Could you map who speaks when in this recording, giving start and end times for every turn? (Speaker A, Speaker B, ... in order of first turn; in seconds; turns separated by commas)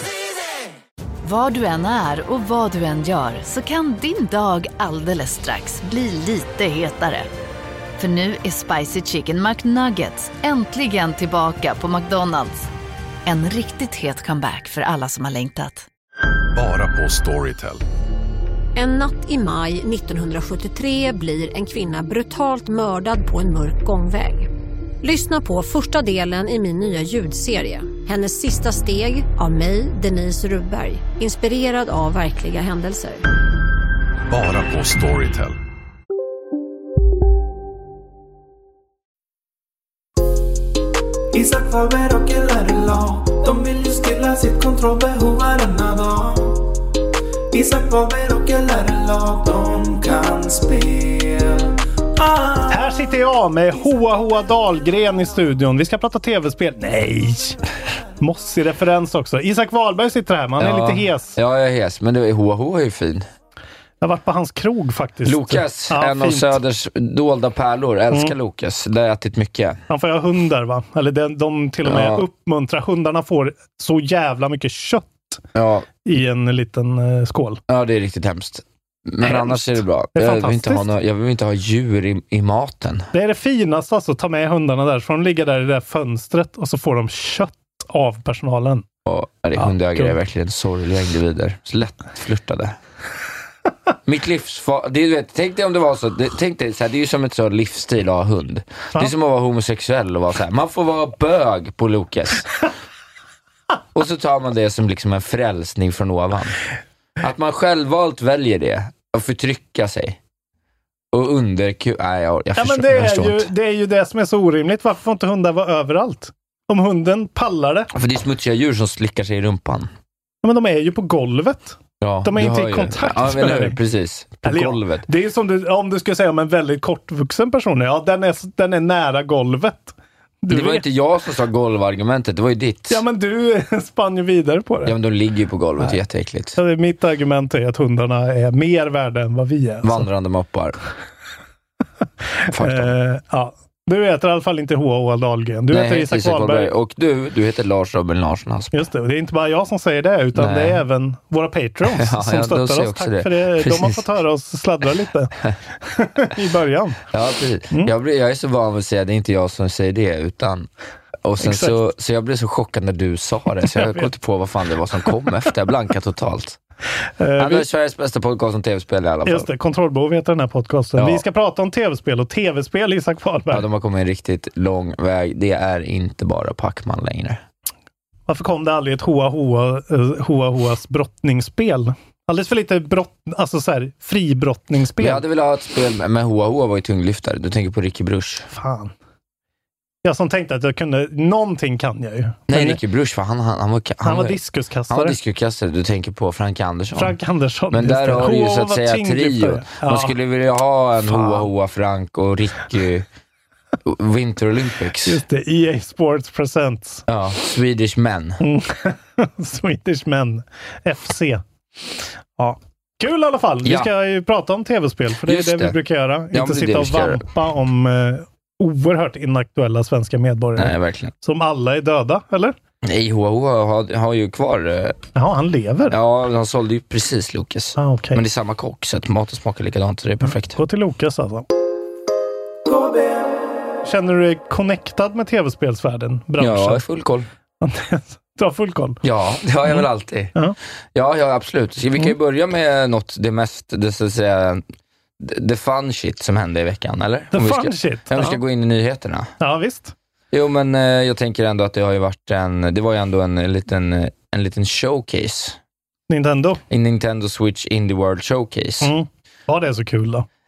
Speaker A: 1.2-7.3, Speaker A: 8.0-12.7, Speaker A: 13.2-15.8, Speaker B: 16.5-17.8, Speaker C: 18.7-24.5, Speaker C: 25.0-33.2, Speaker B: 34.3-35.6, Speaker D: 41.3-46.6, Speaker D: 47.5-51.7, Speaker D: 52.2-52.7, Speaker E: 52.7-57.6, Speaker E: 58.2-61.4, Speaker F: 60.6-63.3, Speaker E: 64.0-66.5, Speaker F: 65.2-69.8, Speaker E: 69.9-75.4, Speaker F: 71.8-72.2, Speaker F: 75.5-75.9, Speaker E: 76.0-77.6, Speaker F: 77.7-83.1, Speaker E: 79.2-80.9, Speaker E: 83.1-88.8, Speaker F: 89.0-92.8, Speaker E: 89.6-90.2, Speaker F: 94.0-102.6, Speaker F: 103.9-106.6, Speaker F: 107.2-110.2, Speaker F: 111.1-113.5, Speaker E: 112.5-117.9, Speaker F: 117.9-119.9, Speaker E: 120.4-123.8, Speaker F: 122.0-125.0, Speaker E: 124.4-130.8, Speaker F: 130.5-133.0, Speaker E: 132.9-134.9, Speaker F: 134.8-136.6, Speaker E: 136.5-140.0, Speaker F: 139.8-140.8, Speaker E: 142.4-146.7, Speaker F: 142.5-142.9, Speaker F: 145.7-148.8, Speaker E: 148.7-157.0, Speaker F: 150.3-150.8, Speaker F: 151.9-154.0, Speaker F: 157.1-160.7, Speaker F: 161.2-166.6, Speaker E: 161.4-161.7, Speaker E: 163.7-164.1, Speaker E: 167.2-167.7, Speaker F: 167.4-169.5, Speaker E: 169.2-173.7, Speaker F: 170.9-171.2, Speaker F: 173.5-177.4, Speaker E: 178.3-185.2, Speaker F: 185.0-188.4, Speaker E: 188.5-188.9, Speaker E: 190.0-192.8, Speaker F: 192.5-194.4, Speaker E: 194.0-195.2, Speaker F: 194.9-197.2, Speaker E: 196.9-200.1, Speaker F: 197.7-203.1, Speaker E: 201.1-201.5, Speaker F: 203.8-205.2, Speaker E: 205.1-207.0, Speaker F: 207.1-208.4, Speaker E: 208.4-211.4, Speaker E: 212.4-222.5, Speaker F: 213.6-213.9, Speaker F: 215.2-215.8, Speaker F: 216.3-217.2, Speaker F: 220.6-221.1, Speaker F: 222.8-225.0, Speaker E: 225.1-226.0, Speaker F: 225.9-230.6, Speaker E: 227.8-228.2, Speaker E: 230.2-231.4, Speaker D: 232.7-233.4, Speaker E: 233.8-236.8, Speaker F: 236.4-237.3, Speaker E: 237.6-239.0, Speaker F: 239.0-240.3, Speaker F: 240.9-244.6, Speaker F: 245.2-249.3, Speaker E: 247.3-248.4, Speaker E: 249.4-249.9, Speaker F: 250.3-255.6, Speaker E: 256.1-256.6, Speaker F: 256.7-258.9, Speaker E: 258.8-260.2